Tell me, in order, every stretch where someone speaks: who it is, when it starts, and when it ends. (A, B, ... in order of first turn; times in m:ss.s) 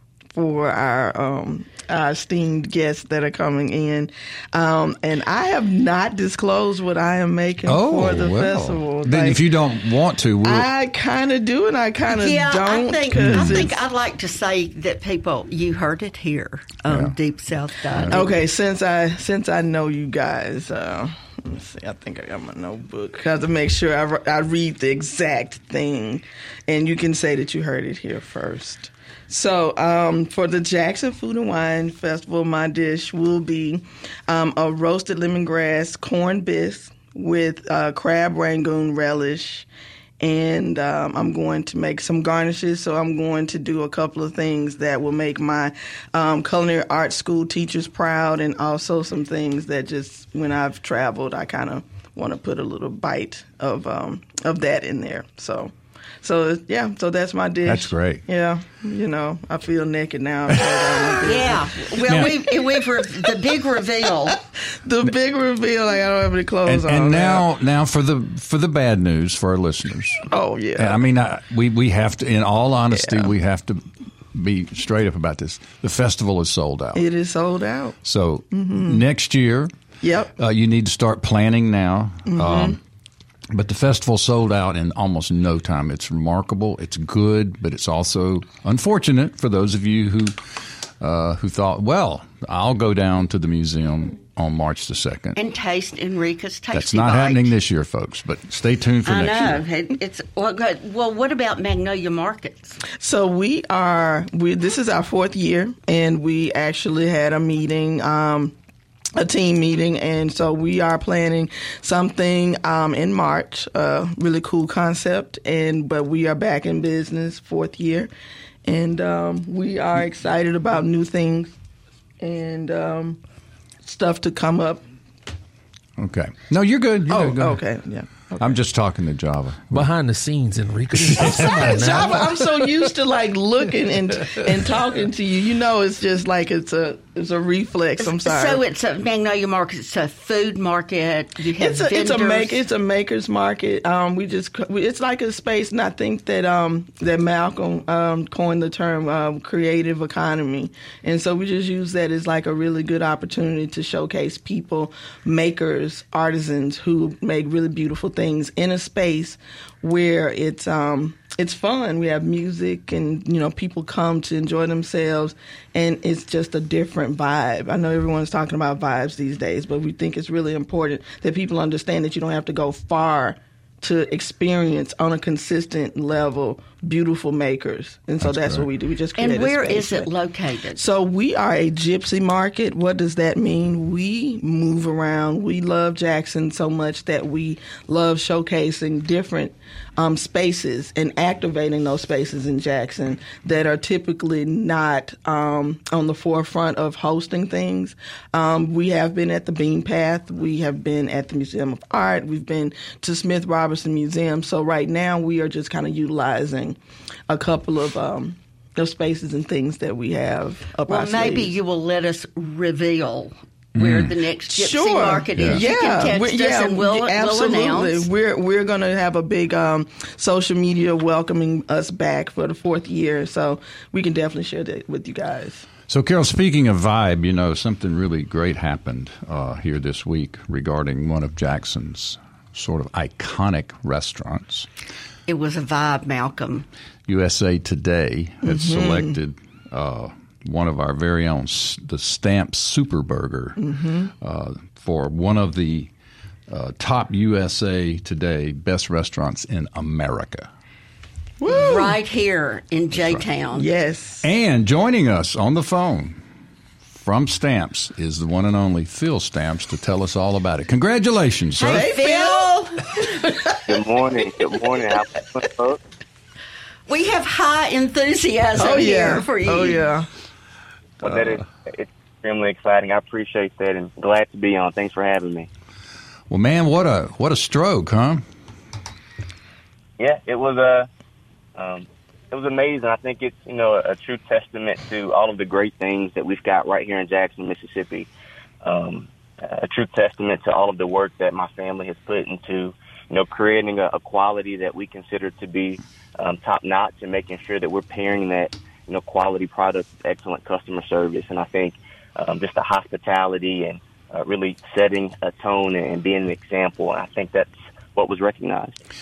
0:00.3-0:09.4 A
0:07.6-0:10.7 B
0:10.4-0:13.8 A
0:12.1-0:18.4 C
0:13.1-0:13.7 B
0:16.9-0:17.1 B
0:17.9-0:18.3 B
0:18.1-0:39.7 A
0:40.2-1:03.6 A
0:57.6-0:58.2 B
1:00.5-1:01.2 B
1:01.2-1:04.4 C
1:02.0-1:02.4 B
1:04.2-1:07.4 A
1:06.6-1:10.2 B
1:10.3-1:11.0 A
1:10.8-1:17.0 B
1:13.0-1:13.3 A
1:16.9-1:18.0 A
1:18.0-1:19.7 B
1:18.5-1:19.0 A
1:20.0-1:20.3 A
1:20.4-1:22.8 B
1:22.3-1:22.8 A
1:23.5-1:35.4 B
1:35.3-1:37.5 C
1:36.7-1:39.6 B
1:39.0-1:42.8 C
1:43.0-1:48.5 A
1:49.2-1:58.1 A
1:58.6-2:01.5 A
2:02.2-2:03.2 A
2:03.8-2:04.8 A
2:06.0-2:07.6 B
2:07.1-2:08.6 A
2:08.4-2:09.9 B
2:09.7-2:12.5 D
2:11.2-2:11.6 B
2:11.2-2:18.6 A
2:18.0-2:22.6 C
2:21.6-3:00.1 A
2:58.2-2:58.6 B
2:59.2-3:00.8 C
3:00.8-3:26.8 A
3:27.3-3:31.5 A
3:30.9-3:38.1 C
3:33.8-3:34.1 B
3:34.5-3:45.6 A
3:35.4-3:35.6 B
3:45.9-3:54.7 B
3:55.3-3:56.7 C
3:57.1-4:03.6 B
3:58.4-3:59.1 A
4:03.6-4:04.1 A
4:04.2-4:05.9 B
4:06.5-4:10.5 B
4:11.4-4:12.0 A
4:11.5-4:13.7 C
4:12.9-4:13.2 B
4:13.5-4:14.2 A
4:14.2-4:16.2 B
4:16.8-4:21.9 B
4:21.6-4:23.0 C
4:21.6-4:23.7 A
4:23.6-4:25.8 E
4:26.9-4:29.9 C
4:28.6-4:30.1 A
4:31.0-4:35.5 E
4:36.3-4:38.2 B
4:40.0-4:40.9 E
4:41.6-4:48.1 E
4:48.6-5:08.8 E